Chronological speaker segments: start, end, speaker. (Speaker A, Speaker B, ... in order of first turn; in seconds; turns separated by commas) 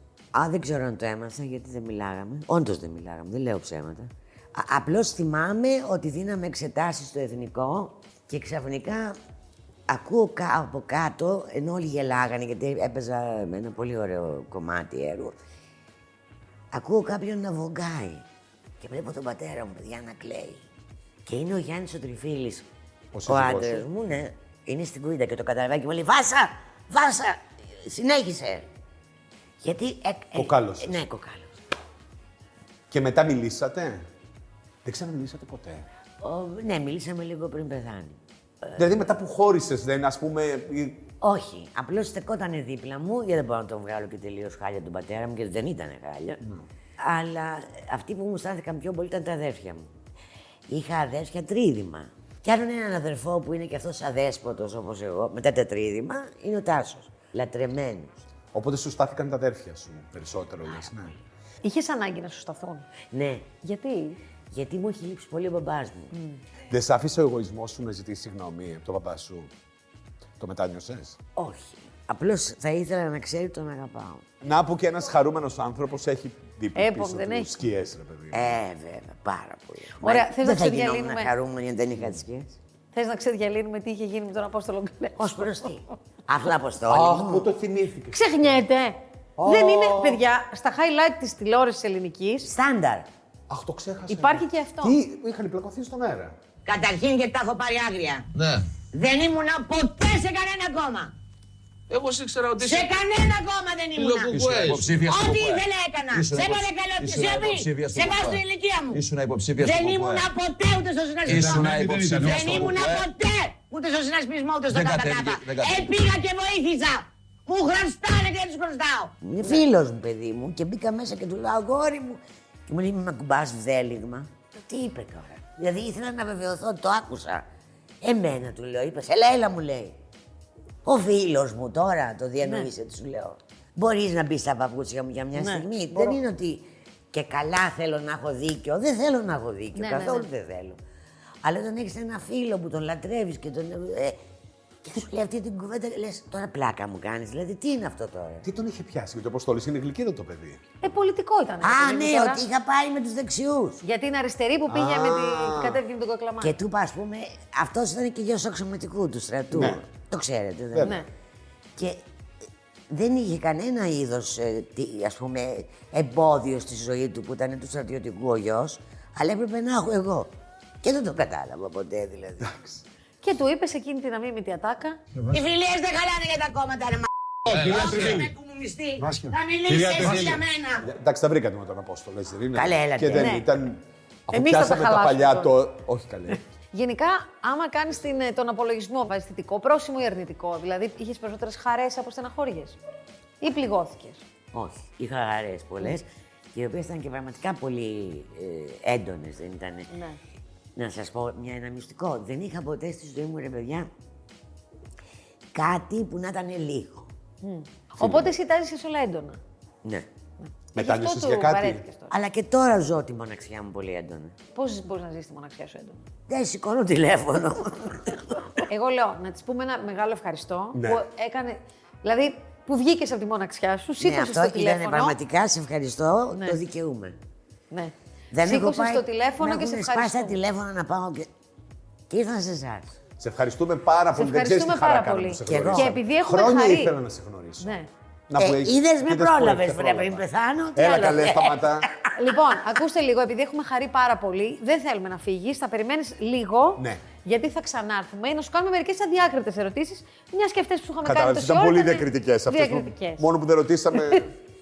Speaker A: 0.3-9.2, Speaker A: 9.9-15.4, Speaker A: 16.7-18.2, Speaker A: 18.8-20.6, Speaker A: 21.2-22.6, Speaker B: 23.1-23.8, Speaker A: 23.2-28.7, Speaker A: 29.6-31.6, Speaker B: 30.4-31.0, Speaker B: 32.9-34.1, Speaker B: 34.8-35.9, Speaker A: 36.2-38.2, Speaker B: 38.7-41.1, Speaker A: 41.2-46.4, Speaker A: 47.0-49.9, Speaker A: 50.7-58.2, Speaker B: 58.5-61.1, Speaker C: 61.6-62.9, Speaker A: 63.1-63.5, Speaker C: 63.6-64.2, Speaker A: 64.5-66.1, Speaker C: 66.1-66.4, Speaker B: 66.7-69.5, Speaker B: 70.4-71.2, Speaker A: 71.3-74.2, Speaker B: 74.4-78.6, Speaker C: 76.7-77.5, Speaker A: 78.3-82.6, Speaker C: 80.0-81.3, Speaker C: 82.9-85.8, Speaker A: 85.2-87.5, Speaker B: 86.9-88.2, Speaker C: 88.1-92.5, Speaker B: 89.4-90.2, Speaker A: 92.4-93.1, Speaker B: 93.5-96.3, Speaker C: 94.1-95.0, Speaker A: 96.7-98.1, Speaker D: 96.8-98.2, Speaker E: 98.3-98.7, Speaker A: 98.9-101.1, Speaker D: 99.0-100.3, Speaker E: 101.9-102.9, Speaker A: 102.6-104.3, Speaker D: 102.6-108.8, Speaker E: 103.9-110.3, Speaker A: 105.0-109.0, Speaker A: 109.6-118.5, Speaker D: 109.7-111.7, Speaker E: 111.2-113.1, Speaker B: 111.3-112.5, Speaker D: 112.2-116.9, Speaker E: 114.7-116.1, Speaker D: 117.5-119.1, Speaker A: 119.2-127.5, Speaker A: 128.0-130.0, Speaker A: 130.8-140.8, Speaker C: 132.4-132.7, Speaker C: 135.3-135.7, Speaker C: 139.8-140.3, Speaker A: 141.4-144.2, Speaker A: 144.8-148.5, Speaker B: 148.4-150.6, Speaker C: 150.8-152.4, Speaker A: 151.6-153.8, Speaker C: 153.8-156.5, Speaker B: 154.7-155.8, Speaker A: 156.4-161.0, Speaker B: 159.5-159.8, Speaker B: 160.7-161.0, Speaker C: 160.8-161.1, Speaker A: 161.8-162.0, Speaker A: 162.9-170.3, Speaker A: 170.8-172.7, Speaker C: 173.2-175.0, Speaker A: 175.3-175.9, Speaker D: 175.5-180.8, Speaker E: 177.5-178.2, Speaker A: 177.6-180.4, Speaker B: 177.8-178.1, Speaker E: 179.7-180.3, Speaker B: 180.8-186.4, Speaker A: 182.5-183.4, Speaker C: 183.1-183.4, Speaker C: 184.3-185.5, Speaker C: 186.7-192.8, Speaker C: 193.4-194.2, Speaker A: 194.5-199.9, Speaker C: 199.9-200.2, Speaker A: 200.8-203.9, Speaker A: 205.5-207.1, Speaker C: 207.4-209.4, Speaker B: 208.0-208.3, Speaker C: 210.4-212.1, Speaker B: 210.7-211.8, Speaker A: 212.1-214.3, Speaker C: 214.5-216.0, Speaker A: 216.3-218.4, Speaker C: 218.7-225.2, Speaker B: 220.7-221.0, Speaker A: 224.0-227.2, Speaker C: 227.7-230.4, Speaker A: 228.3-231.3, Speaker A: 232.1-232.9, Speaker B: 233.2-237.8, Speaker C: 234.1-236.9, Speaker A: 235.5-236.0, Speaker C: 237.6-237.9, Speaker B: 238.3-241.9, Speaker A: 238.3-242.1, Speaker C: 242.1-253.2, Speaker B: 251.0-254.3